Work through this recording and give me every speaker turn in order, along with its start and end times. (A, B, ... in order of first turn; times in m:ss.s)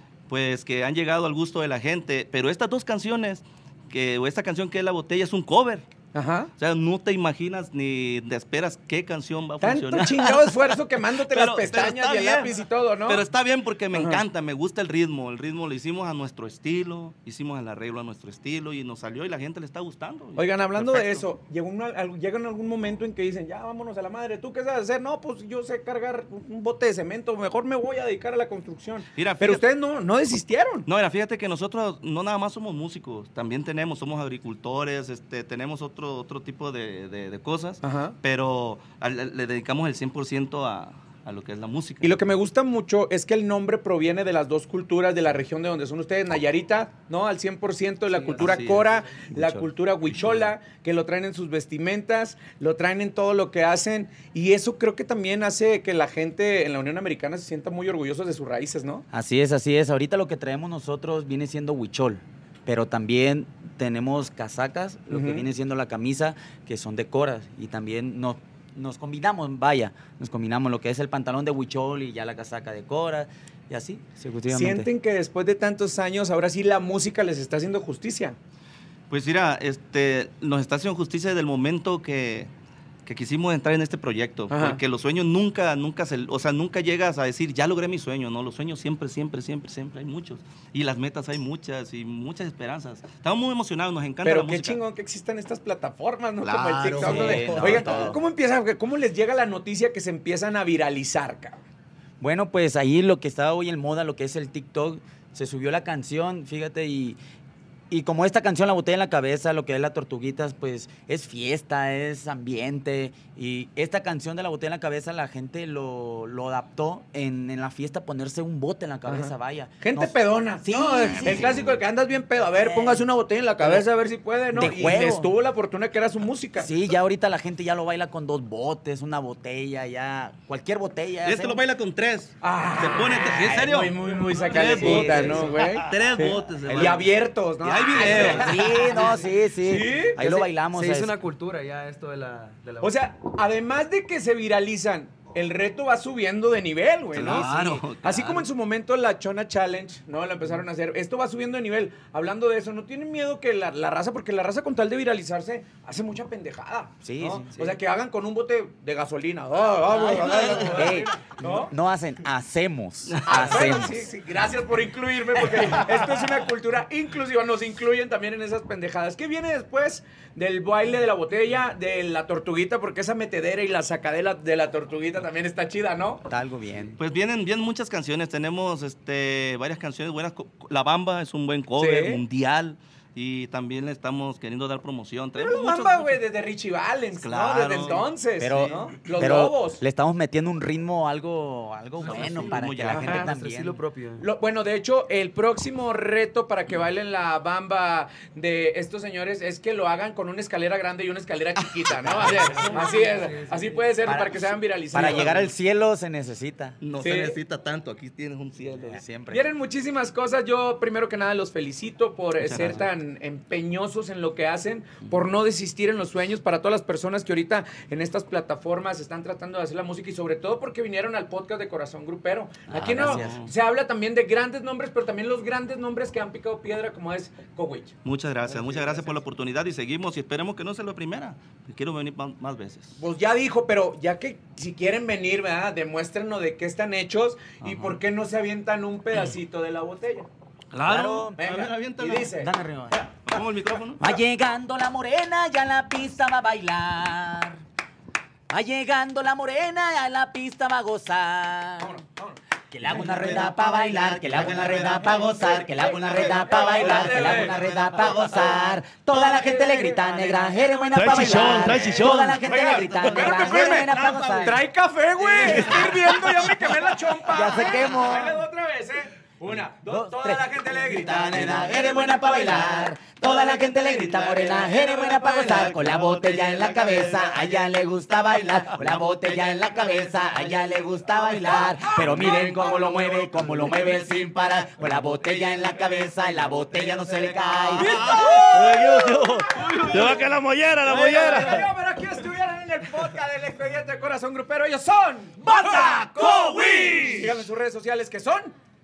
0:00.3-0:05.8 A
0:06.1-0:06.5 B
0:06.6-0:21.2 A
0:09.6-0:13.2 B
0:13.9-0:14.2 B
0:20.4-0:30.9 B
0:29.1-0:29.6 A
0:30.9-0:42.3 A
0:37.8-0:38.2 B
0:42.0-0:59.0 B
0:48.1-0:50.5 A
0:59.1-1:14.9 C
1:05.1-1:05.4 B
1:14.5-1:18.4 B
1:19.1-1:22.5 A
1:23.0-1:34.8 A
1:24.5-1:24.8 B
1:34.2-1:41.6 B
1:36.4-1:38.1 A
1:36.9-1:38.2 C
1:42.2-1:47.2 C
1:47.9-2:01.8 C
1:59.1-2:06.8 B
2:01.2-2:01.7 A
2:02.5-2:03.0 C
2:03.6-2:03.8 C
2:04.5-2:05.3 C
2:06.6-2:11.6 C
2:11.2-2:19.0 A
2:12.4-2:20.3 B
2:14.3-2:15.7 D
2:14.6-2:15.6 C
2:16.7-2:17.0 C
2:18.0-2:21.2 C
2:20.2-2:23.0 D
2:22.8-2:41.7 B
2:27.1-2:28.5 A
2:27.2-2:27.9 C
2:37.0-2:37.8 C
2:40.0-2:40.8 A
2:40.2-2:44.1 C
2:43.1-2:43.8 A
2:43.2-2:56.2 B
2:56.3-2:57.0 C
2:57.0-3:06.2 A
3:01.8-3:02.2 B
3:05.4-3:09.8 B
3:07.2-3:08.1 A
3:08.4-3:13.8 C
3:08.6-3:09.1 A
3:12.0-3:13.3 A
3:12.1-3:14.3 D
3:14.2-3:25.5 B
3:21.9-3:22.8 C
3:22.3-3:24.0 D
3:24.0-3:24.4 C
3:24.9-3:26.9 C
3:26.8-3:29.0 A
3:27.0-3:27.4 B
3:28.7-3:29.4 C
3:29.3-3:49.2 B
3:32.4-3:32.8 A
3:42.7-3:43.5 C
3:42.9-3:43.5 A
3:48.0-3:53.0 A
3:53.0-4:00.3 B
3:57.6-3:58.0 A
4:00.7-4:02.3 A
4:00.8-4:01.4 C
4:01.4-4:03.0 B
4:02.3-4:03.4 C
4:03.2-4:04.1 A
4:04.0-4:07.6 C
4:08.5-4:12.0 C
4:11.8-4:12.4 B
4:12.7-4:24.6 C
4:12.9-4:18.6 A
4:16.2-4:17.6 B
4:19.1-4:20.4 B
4:20.9-4:24.4 A
4:21.3-4:32.2 B
4:25.2-4:26.3 A
4:25.4-4:26.0 C
4:27.3-4:28.4 C
4:29.8-4:48.3 C
4:31.4-4:32.6 A
4:33.9-4:37.6 A
4:41.5-4:43.8 A
4:47.3-4:51.7 A
4:47.7-4:50.3 B
4:50.8-4:58.5 B
4:55.6-4:57.3 A